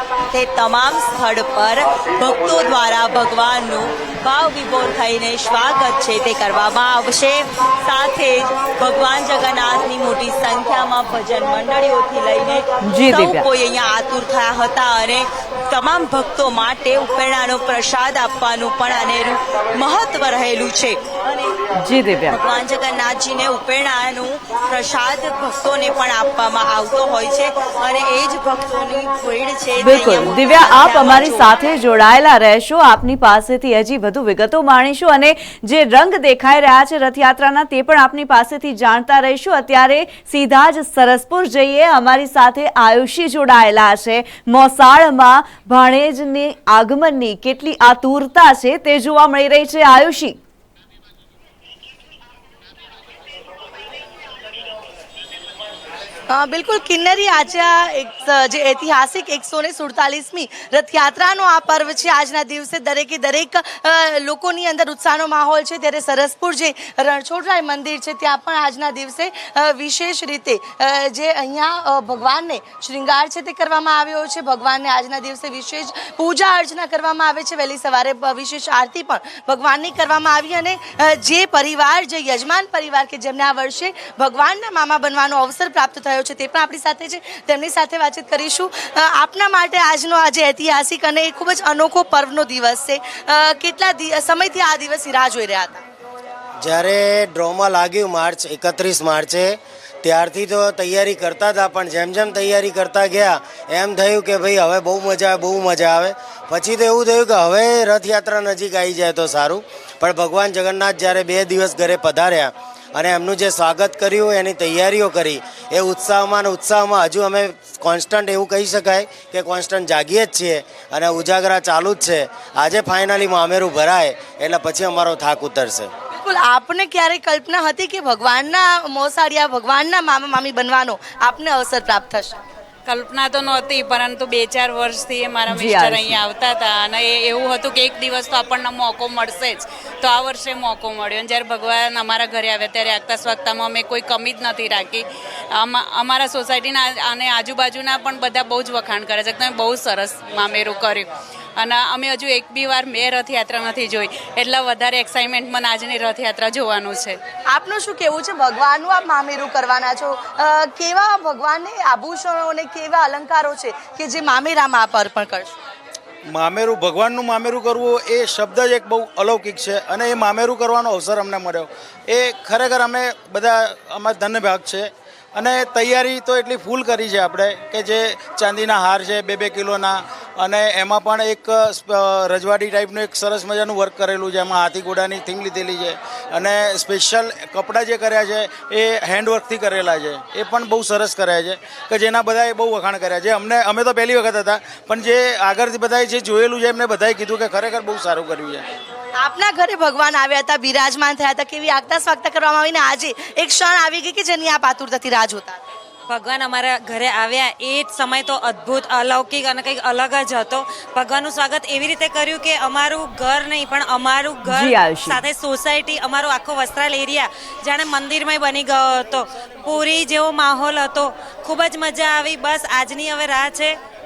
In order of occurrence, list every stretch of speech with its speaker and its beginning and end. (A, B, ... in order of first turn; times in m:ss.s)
0:00.3-0:21.6 A
0:12.9-0:13.4 B
0:21.7-0:22.4 B
0:22.3-0:31.5 A
0:29.8-0:50.4 B
0:56.3-1:35.8 C
1:36.6-2:05.9 D
2:06.1-2:12.4 C
2:12.8-2:37.2 E
2:15.5-2:16.2 B
2:37.5-2:45.5 C
2:46.3-3:18.6 F
3:19.2-3:25.6 C
3:26.1-3:43.7 G
3:34.4-3:35.2 B